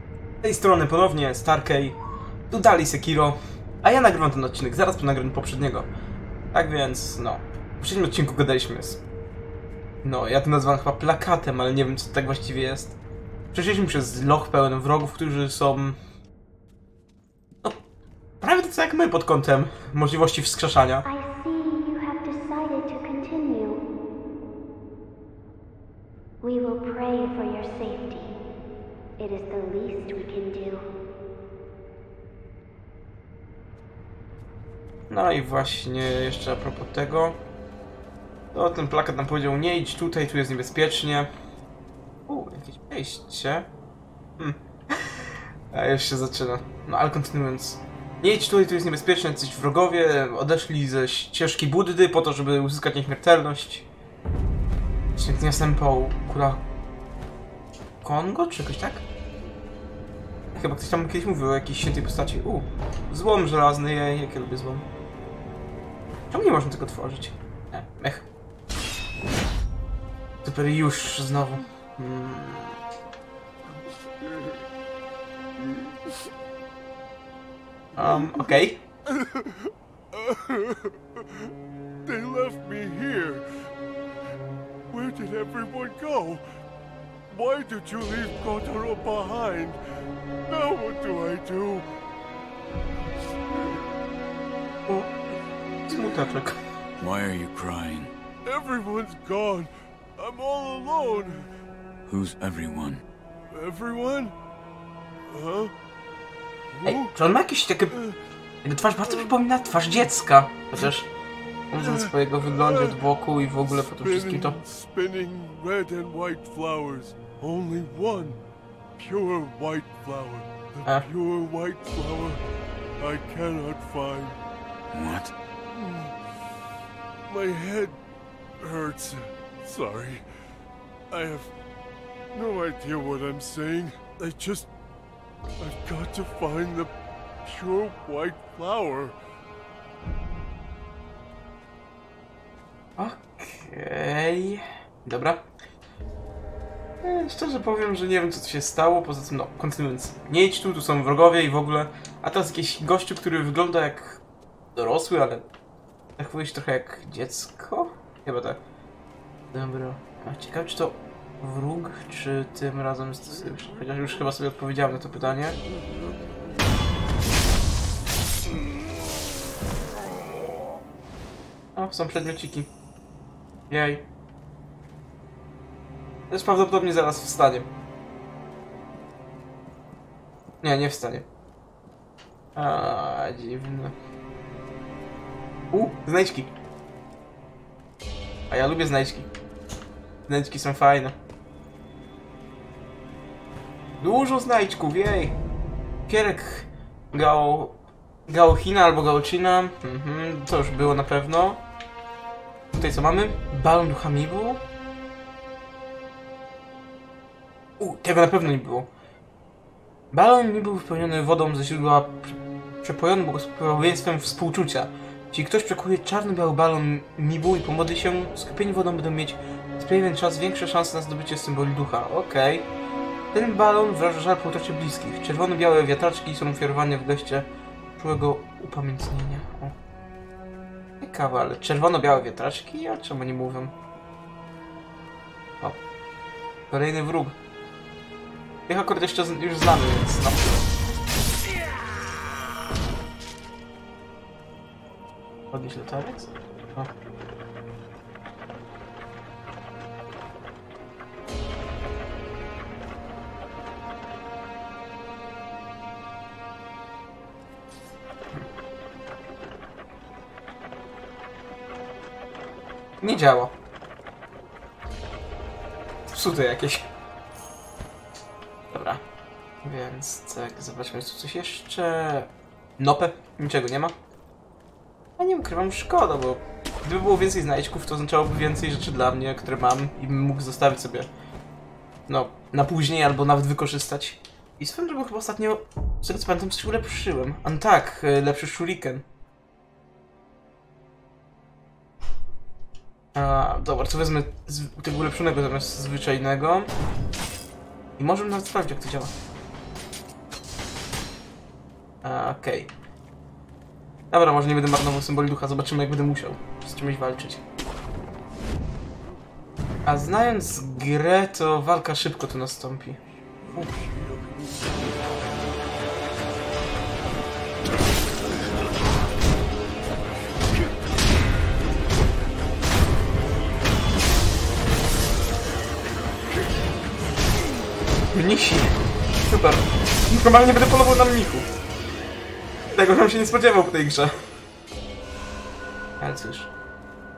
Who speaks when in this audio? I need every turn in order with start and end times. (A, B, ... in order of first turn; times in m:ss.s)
0:00.4-0:02.0 A
0:02.5-0:05.9 A
0:06.5-0:09.0 A
0:10.0-0:13.0 A
0:13.5-0:16.0 A
0:18.4-0:21.0 A
0:21.0-0:23.8 B
0:26.4-0:28.4 B
0:29.2-0:30.9 B
0:35.1-0:37.4 A
0:38.5-0:41.3 A
0:42.3-0:43.7 A
0:44.4-0:53.9 A
0:55.2-0:56.6 A
0:58.0-0:59.0 A
1:00.5-1:04.9 A
1:06.3-1:08.3 A
1:10.4-1:12.8 A
1:18.0-1:18.8 A
1:19.1-1:21.5 C
1:22.0-1:23.7 C
1:24.9-1:26.4 C
1:27.3-1:29.8 C
1:30.4-1:31.9 C
1:34.9-1:35.1 A
1:35.9-1:36.6 A
1:37.0-1:38.1 D
1:38.4-1:41.5 C
1:42.1-1:43.0 D
1:43.5-1:44.4 C
1:45.3-1:45.7 C
1:46.7-1:47.1 C
1:46.8-1:48.0 A
1:47.9-1:48.2 C
1:48.6-1:51.1 A
1:49.0-1:49.4 C
1:51.7-1:54.6 A
1:51.8-1:53.0 C
1:53.7-1:58.4 C
1:59.0-2:02.4 C
2:03.0-2:04.4 C
2:04.9-2:05.3 D
2:05.7-2:06.2 C
2:07.2-2:08.0 C
2:08.6-2:10.3 C
2:11.1-2:11.5 C
2:12.3-2:14.7 C
2:15.6-2:16.9 C
2:17.4-2:19.2 C
2:23.0-2:25.5 A
2:27.0-2:34.2 A
2:34.8-2:35.5 A
2:36.2-2:38.6 A
2:39.5-2:45.6 A
2:51.8-2:52.7 A
2:53.7-2:54.0 A
2:56.3-2:57.7 A
3:00.6-3:01.3 A
3:02.6-3:04.0 A
3:05.7-3:06.5 A
3:08.5-3:09.3 A
3:10.3-3:11.2 A
3:14.0-3:15.4 A
3:16.1-3:21.6 A
3:22.7-3:24.6 A
3:27.8-3:28.9 A
3:30.1-3:42.7 A
3:43.3-3:49.7 A
3:51.0-3:53.7 A
3:56.7-3:57.4 A
3:58.7-4:00.7 A
4:05.5-4:06.9 A
4:23.0-4:23.5 A
4:26.1-4:26.9 A
4:28.7-4:29.0 A
4:29.6-4:34.0 A
4:35.2-4:41.1 A
4:42.1-4:49.0 A
4:53.1-4:56.7 A
4:58.0-4:59.1 A
5:02.0-5:02.7 A
5:04.1-5:07.4 A
5:09.8-5:13.0 A
5:13.4-5:15.2 C
5:28.1-5:31.5 A
5:32.7-5:34.2 A
5:36.0-5:36.5 A